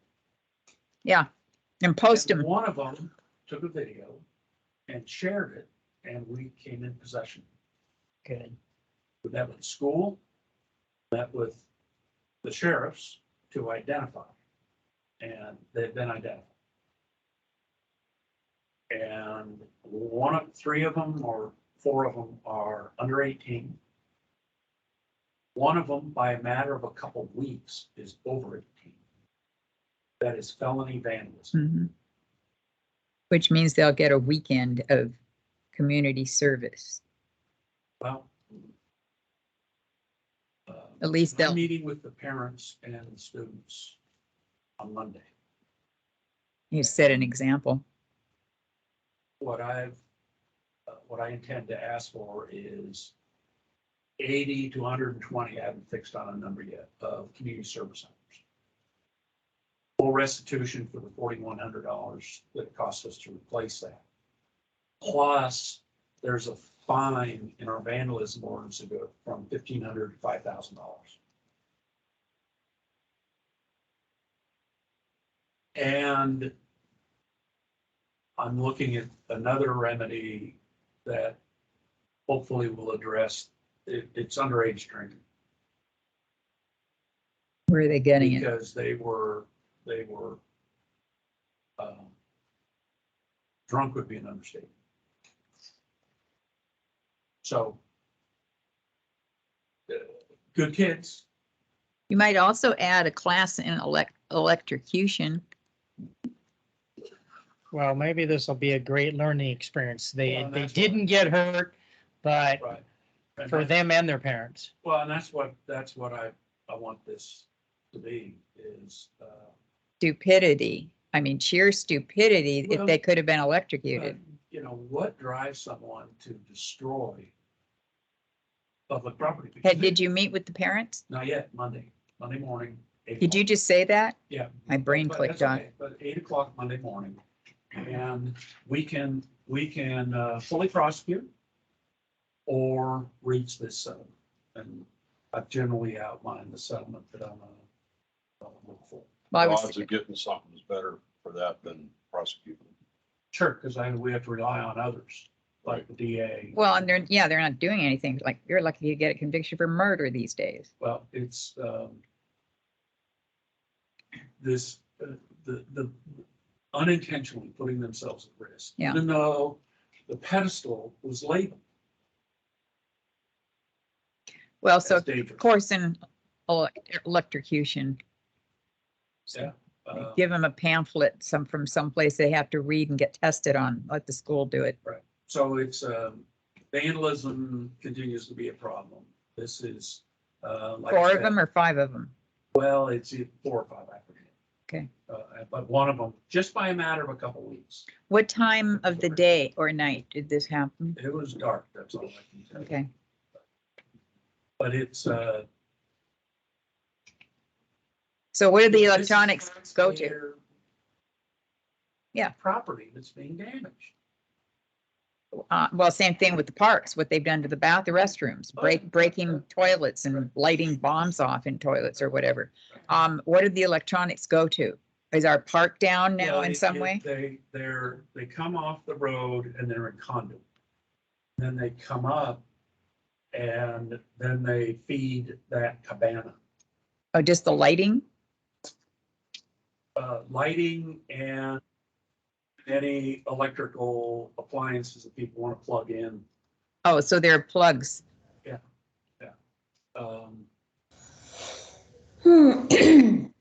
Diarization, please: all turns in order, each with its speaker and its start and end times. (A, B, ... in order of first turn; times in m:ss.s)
0:01.8-0:02.5 A
0:02.1-0:04.2 B
0:04.9-0:07.4 B
0:08.2-0:08.5 C
0:09.2-0:10.2 B
0:11.1-0:11.6 B
0:12.4-0:14.3 B
0:15.2-0:16.5 B
0:18.9-0:23.8 B
0:25.5-0:29.0 B
0:30.2-0:31.5 B
0:31.5-0:31.9 A
0:33.3-0:35.1 A
0:35.7-0:37.0 A
0:38.0-0:38.3 B
0:40.7-0:44.0 B
0:41.0-0:41.6 A
0:44.8-0:45.3 B
0:46.7-0:47.8 A
0:49.4-0:50.0 B
0:50.9-0:53.1 B
0:54.2-0:58.4 B
1:00.0-1:04.0 B
1:05.0-1:11.2 B
1:15.8-1:16.5 B
1:18.4-1:21.4 B
1:22.3-1:25.2 B
1:27.7-1:28.5 A
1:28.2-1:30.4 B
1:31.8-1:32.1 B
1:33.7-1:34.7 B
1:37.4-1:37.8 B
1:39.9-1:41.2 B
1:42.1-1:45.4 A
1:47.7-1:52.6 C
1:50.2-1:51.0 B
1:52.6-1:52.8 B
1:53.4-1:53.7 B
1:53.5-1:54.7 C
1:54.8-1:59.5 B
2:00.0-2:04.2 A
2:02.6-2:03.0 B
2:04.0-2:07.3 B
2:08.9-2:10.0 B
2:09.6-2:11.0 A
2:11.1-2:13.4 B
2:13.2-2:14.2 A
2:14.3-2:17.2 B
2:14.7-2:15.6 A
2:17.7-2:21.3 B
2:22.4-2:27.6 B
2:28.4-2:29.1 B
2:29.3-2:29.9 A
2:29.4-2:32.7 D
2:33.3-2:36.6 B
2:36.5-2:40.7 A
2:40.8-2:42.0 B
2:44.4-2:51.6 B
2:54.6-2:58.0 A
2:54.8-2:55.4 B
2:59.3-3:04.8 A
2:59.3-3:00.2 B
3:04.8-3:11.4 B
3:10.9-3:12.1 A
3:12.5-3:14.3 B
3:15.1-3:17.9 B
3:18.1-3:21.0 A
3:21.0-3:22.8 B
3:22.6-3:22.9 A
3:24.6-3:25.4 B
3:28.3-3:30.1 A
3:28.7-3:30.4 B
3:32.4-3:33.9 B
3:35.5-3:47.0 A
3:38.6-3:39.3 B
3:46.2-3:50.4 B
3:51.4-3:52.4 B
3:53.3-3:56.4 B
3:57.1-3:58.0 A
4:00.0-4:01.6 B
4:02.6-4:06.2 B
4:06.8-4:08.0 A
4:09.9-4:10.5 B
4:12.6-4:13.2 A